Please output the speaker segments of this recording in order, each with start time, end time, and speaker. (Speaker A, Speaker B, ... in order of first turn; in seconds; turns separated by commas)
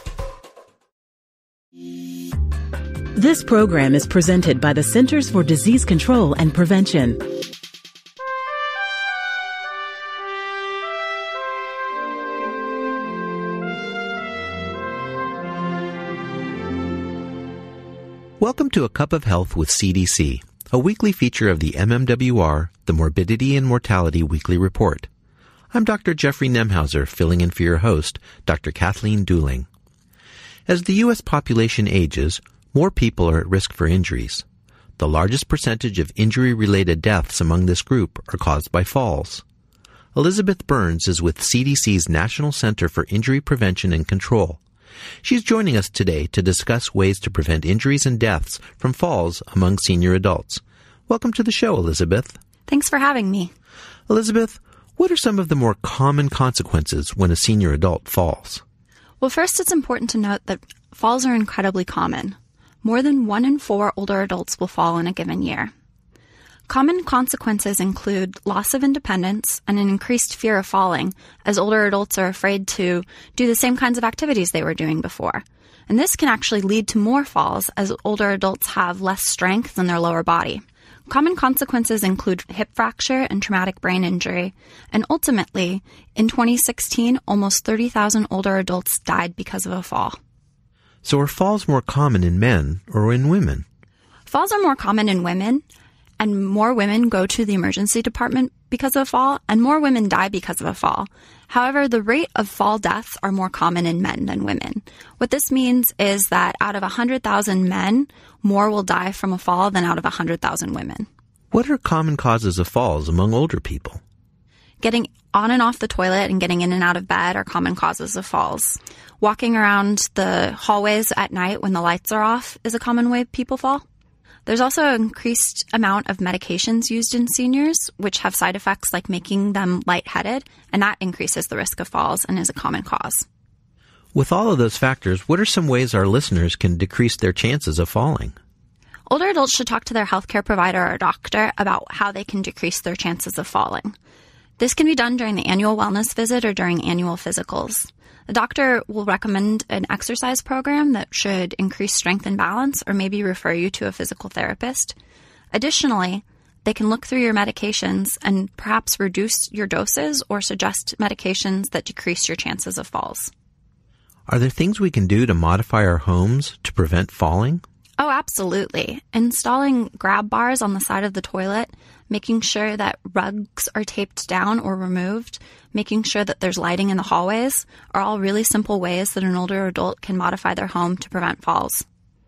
Speaker A: 3.1-7.2, Speaker B: 18.4-25.1, Speaker B: 25.7-29.7, Speaker B: 30.7-34.4, Speaker B: 35.0-39.4, Speaker B: 40.1-44.6, Speaker B: 45.2-52.4, Speaker C: 52.7-53.5, Speaker B: 54.1-58.6, Speaker C: 59.2-65.7, Speaker C: 66.7-90.2, Speaker B: 91.0-93.6, Speaker C: 94.3-95.6, Speaker C: 96.2-111.1, Speaker B: 111.5-114.0, Speaker C: 114.8-123.8, Speaker C: 124.5-133.2, Speaker B: 134.1-138.3, Speaker C: 139.1-143.9, Speaker C: 144.6-154.9, Speaker C: 155.5-163.3, Speaker B: 164.3-167.6, Speaker C: 168.0-181.8